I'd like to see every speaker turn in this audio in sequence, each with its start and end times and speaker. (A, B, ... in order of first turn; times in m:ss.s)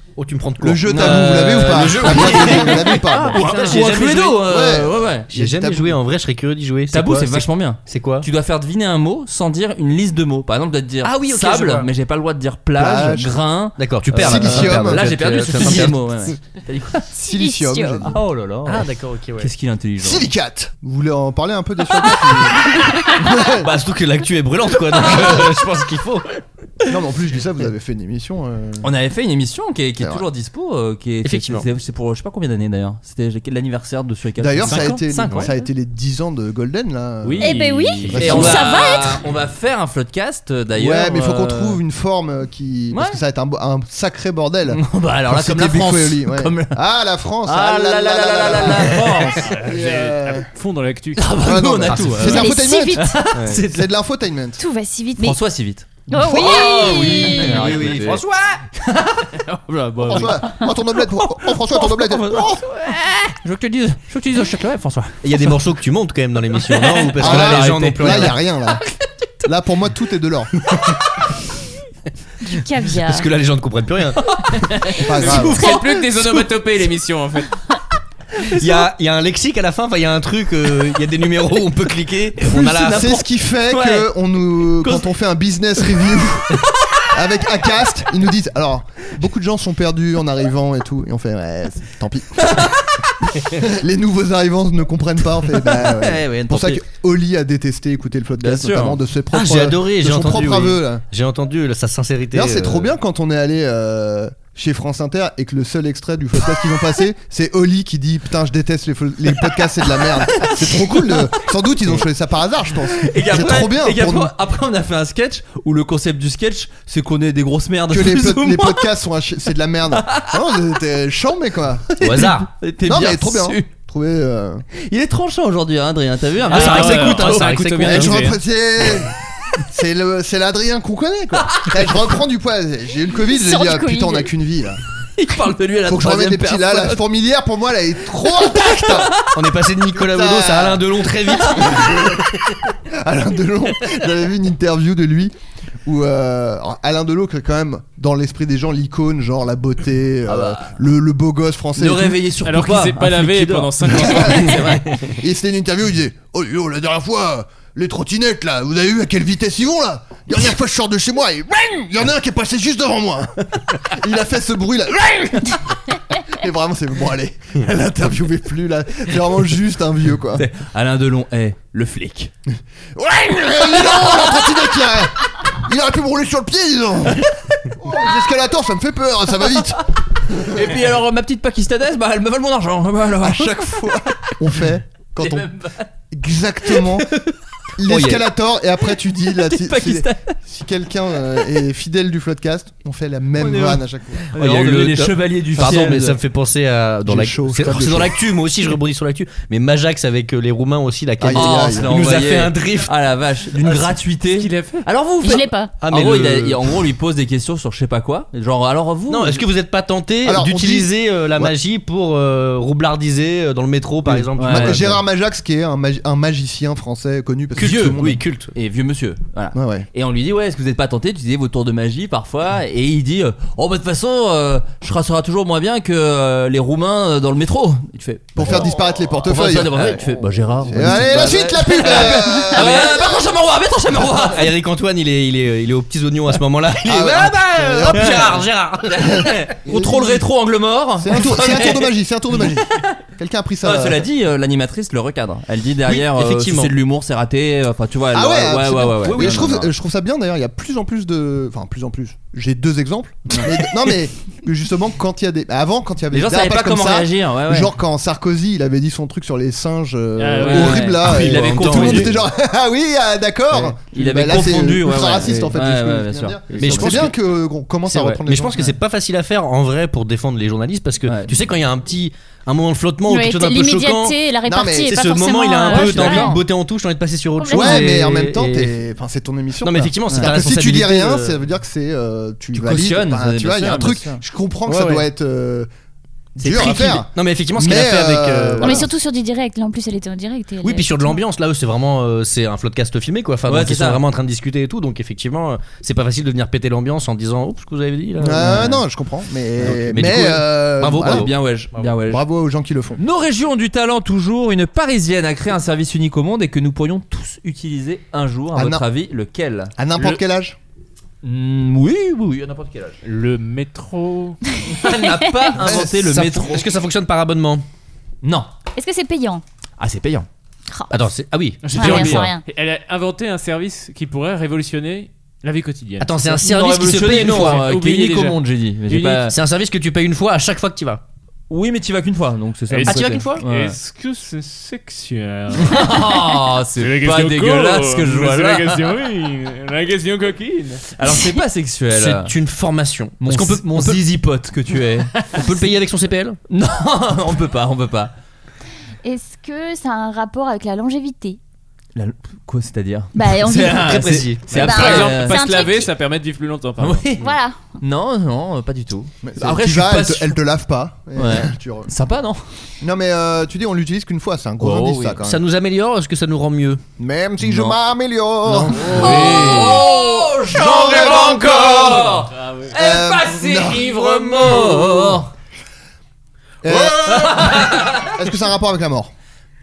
0:00.2-0:04.5 A
0:00.6-0:03.6 B
0:00.9-0:05.3 C
0:04.5-0:06.0 B
0:05.3-0:08.3 A
0:06.9-0:17.0 C
0:11.0-0:11.9 A
0:12.8-0:13.4 B
0:13.8-0:16.4 A
0:14.1-0:15.1 B
0:17.2-0:18.2 B
0:17.2-0:18.1 D
0:18.1-0:18.9 C
0:18.6-0:19.5 A
0:19.4-0:20.3 C
0:20.0-0:23.7 B
0:23.5-0:26.4 A
0:25.0-0:25.4 B
0:26.9-0:28.9 B
0:28.8-0:35.6 C
0:31.2-0:31.6 A
0:34.4-0:38.6 B
0:34.7-0:34.9 E
0:37.2-0:38.7 E
0:37.4-0:39.2 D
0:38.1-0:41.8 C
0:40.8-0:50.5 B
0:42.9-0:43.2 C
0:44.7-0:46.8 C
0:47.4-0:49.5 C
0:49.4-0:51.4 E
0:51.2-0:53.8 C
0:51.4-0:53.1 B
0:51.9-0:52.4 A
0:52.2-0:53.2 D
0:53.4-0:53.6 A
0:53.7-0:54.6 B
0:54.6-0:55.4 D
0:55.2-0:58.2 C
0:56.1-0:57.7 D
0:56.4-0:58.6 A
0:58.7-0:59.4 C
0:59.4-1:00.4 E
1:00.0-1:02.6 B
1:01.3-1:05.5 C
1:05.2-1:08.4 A
1:06.8-1:08.4 C
1:07.2-1:08.8 B
1:09.4-1:10.5 B
1:10.7-1:11.0 A
1:12.4-1:13.3 D
1:12.9-1:14.2 A
1:14.2-1:15.8 C
1:15.0-1:15.7 B
1:15.1-1:17.5 E
1:18.6-1:23.2 A
1:22.4-1:32.7 B
1:32.5-1:33.0 C
1:33.5-1:41.0 B
1:35.5-1:36.8 C
1:38.4-1:39.0 C
1:39.3-1:42.9 A
1:42.3-1:54.3 B
1:50.4-1:51.2 C
1:52.9-1:58.9 C
1:57.9-2:01.8 B
2:00.0-2:00.6 C
2:01.9-2:03.7 C
2:02.0-2:02.5 A
2:02.8-2:04.6 B
2:04.8-2:07.7 C
2:06.5-2:08.4 E
2:06.5-2:08.3 A
2:07.8-2:09.1 B
2:09.7-2:14.8 B
2:11.5-2:11.8 C
2:13.2-2:14.3 D
2:15.2-2:17.0 C
2:15.8-2:19.2 B
2:18.4-2:19.1 C
2:19.3-2:22.2 A
2:20.0-2:22.4 B
2:22.9-2:25.3 B
2:25.8-2:32.2 B
2:30.3-2:30.7 C
2:31.8-2:34.9 C
2:32.4-2:34.6 E
2:34.0-2:50.4 B
2:50.4-2:52.3 C
2:53.0-3:00.7 B
3:00.5-3:04.4 C
3:03.2-3:05.5 B
3:05.2-3:05.9 C
3:06.1-3:07.1 B
3:07.8-3:14.3 B
3:07.9-3:08.2 A
3:09.2-3:10.4 C
3:13.4-3:16.2 C
3:14.3-3:22.9 A
3:17.0-3:18.2 B
3:21.2-3:22.0 B
3:21.3-3:29.4 C
3:23.6-3:23.9 A
3:24.4-3:24.9 E
3:25.2-3:25.7 D
3:25.8-3:26.7 A
3:29.1-3:35.0 A
3:30.2-3:31.5 B
3:34.0-3:38.2 B
3:34.4-3:34.8 C
3:37.6-3:38.5 A
3:37.6-3:38.0 C
3:38.5-3:48.7 C
3:39.6-3:39.9 B
3:48.4-3:49.9 B
3:49.2-3:54.4 C
3:50.6-3:53.2 B
3:54.2-3:59.4 A
3:56.8-3:58.5 B
3:58.8-4:02.4 C
3:59.6-4:00.3 B
4:01.0-4:04.1 B
4:03.6-4:09.7 C
4:05.9-4:06.7 A
4:08.1-4:28.7 B
4:16.1-4:17.7 C
4:20.2-4:20.9 E
4:20.4-4:22.1 C
4:21.0-4:22.1 A
4:23.9-4:27.1 C
4:26.5-4:27.2 A
4:27.9-4:34.2 A
4:31.1-4:31.3 C
4:33.1-4:36.4 D
4:34.5-4:34.9 B
4:34.8-4:38.8 A
4:35.8-4:36.3 C
4:37.4-4:37.9 D
4:37.5-4:45.7 B
4:39.6-4:41.4 A
4:42.5-4:44.2 C
4:44.7-4:45.0 A
4:46.4-4:48.9 B
4:46.4-4:46.7 C
4:46.4-4:48.9 A
4:48.6-4:51.2 D
4:50.6-4:58.7 A
4:53.5-4:54.0 C
4:58.2-5:01.3 B
4:58.4-4:58.8 C
4:59.6-5:01.9 A
5:01.0-5:02.2 C
5:02.1-5:03.0 B
5:03.0-5:10.2 C
5:08.5-5:08.9 B
5:09.8-5:10.6 B
5:11.2-5:13.0 C
5:13.0-5:14.4 E
5:14.7-5:16.6 C
5:15.6-5:16.3 B
5:16.0-5:17.6 A
5:18.2-5:18.5 C
5:18.8-5:19.4 D
5:19.8-5:20.3 C
5:20.9-5:22.3 A
5:21.6-5:29.3 E
5:21.7-5:22.4 D
5:26.0-5:27.7 A
5:26.4-5:29.4 C
5:29.3-5:31.0 A
5:31.5-5:33.8 C
5:32.7-5:40.9 E
5:32.9-5:33.4 A
5:35.6-5:39.0 C
5:41.0-5:42.3 C
5:41.9-5:44.0 A
5:43.2-5:45.3 C
5:45.3-5:46.4 A
5:46.5-5:48.1 C
5:49.0-5:51.4 D
5:52.0-5:55.4 C
5:53.2-5:54.0 D
5:53.5-5:54.7 A
5:54.5-5:57.1 E
5:54.5-5:55.9 D
5:56.8-5:57.2 C
5:57.2-5:57.6 D
5:57.8-6:00.4 C
5:59.2-6:01.9 B
6:01.2-6:02.4 C
6:02.8-6:05.4 B
6:04.6-6:05.2 C
6:05.2-6:06.8 A
6:07.0-6:09.9 B
6:07.5-6:07.7 C
6:08.5-6:15.3 C
6:09.0-6:09.4 A
6:10.5-6:12.2 B
6:12.3-6:12.8 E
6:12.7-6:15.2 B
6:16.6-6:19.1 B
6:16.7-6:17.3 A
6:17.1-6:18.2 C